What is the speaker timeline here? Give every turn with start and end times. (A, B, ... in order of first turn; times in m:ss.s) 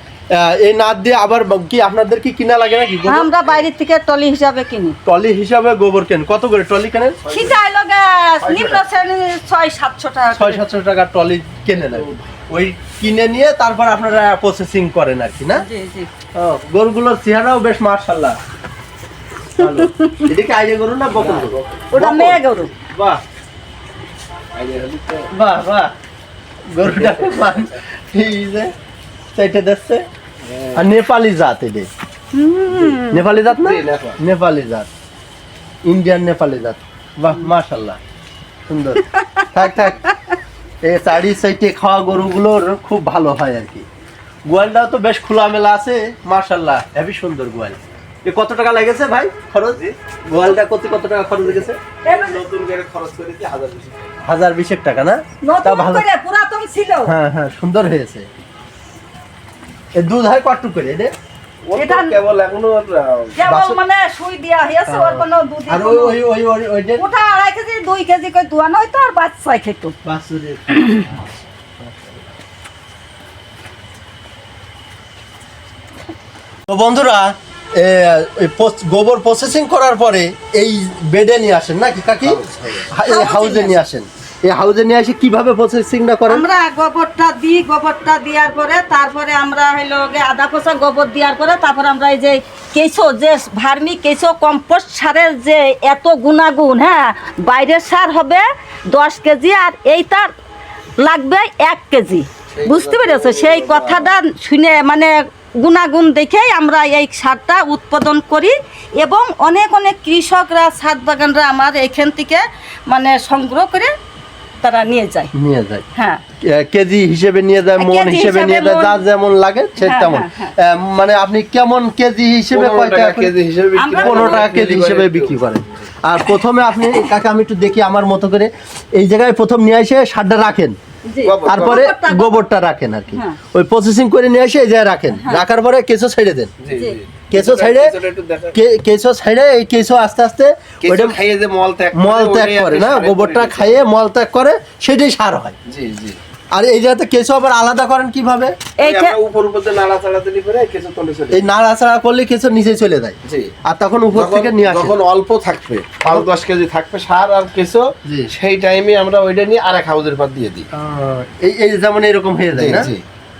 0:00.3-0:03.6 A
0:03.1-0:05.0 B
0:05.0-0:07.3 A
0:07.2-0:07.5 C
0:07.3-0:10.6 B
0:08.4-0:08.8 A
0:10.4-0:15.6 A
0:15.5-0:16.1 B
0:16.4-0:18.4 A
0:19.6-0:22.4 A
0:19.6-0:20.3 B
0:21.1-0:21.8 C
0:21.9-0:22.7 B
0:22.9-0:23.2 A
0:24.5-0:25.3 C
0:25.3-0:25.9 A
0:26.7-0:28.7 A
0:26.8-0:27.7 C
0:29.4-0:30.0 A
0:30.4-0:30.8 C
0:30.7-0:31.9 A
0:32.3-0:33.5 B
0:33.0-0:34.9 A
0:33.6-0:34.2 C
0:35.9-0:38.0 A
0:38.7-0:40.0 A
0:39.1-0:39.5 B
0:40.0-0:40.4 B
0:40.8-0:43.8 A
0:44.5-0:51.8 A
0:52.0-0:52.4 B
0:52.1-0:54.1 C
0:54.3-0:56.0 A
0:55.4-0:57.1 B
0:57.0-0:58.3 A
1:00.0-1:01.1 A
1:01.7-1:03.4 C
1:01.7-1:02.2 B
1:03.4-1:06.2 B
1:03.4-1:03.8 A
1:04.9-1:07.0 A
1:07.0-1:10.0 B
1:10.0-1:12.1 A
1:10.7-1:11.0 B
1:16.7-1:26.4 A
1:22.2-1:22.8 C
1:23.0-1:23.8 B
1:26.3-1:40.3 B
1:41.0-1:53.9 B
1:42.5-1:44.1 C
1:54.6-1:55.3 B
1:55.3-1:55.8 A
1:56.0-1:56.2 B
1:56.4-2:03.3 A
1:57.8-1:59.0 B
1:59.8-2:00.6 B
2:02.5-2:05.6 C
2:03.8-2:04.5 B
2:04.0-2:10.8 A
2:11.1-2:12.4 B
2:11.2-2:11.8 C
2:11.5-2:16.5 A
2:13.1-2:13.4 B
2:16.6-2:18.6 C
2:16.7-2:17.0 B
2:17.3-2:17.9 A
2:18.5-2:21.2 A
2:20.8-2:23.8 C
2:21.9-2:25.6 A
2:25.7-2:26.2 C
2:26.5-2:28.6 A
2:28.8-2:29.2 B
2:28.8-2:31.4 C
2:31.3-2:34.9 A
2:33.2-2:33.5 C
2:34.1-2:40.7 C
2:38.0-2:38.3 A
2:40.7-2:42.9 A
2:42.6-2:43.0 C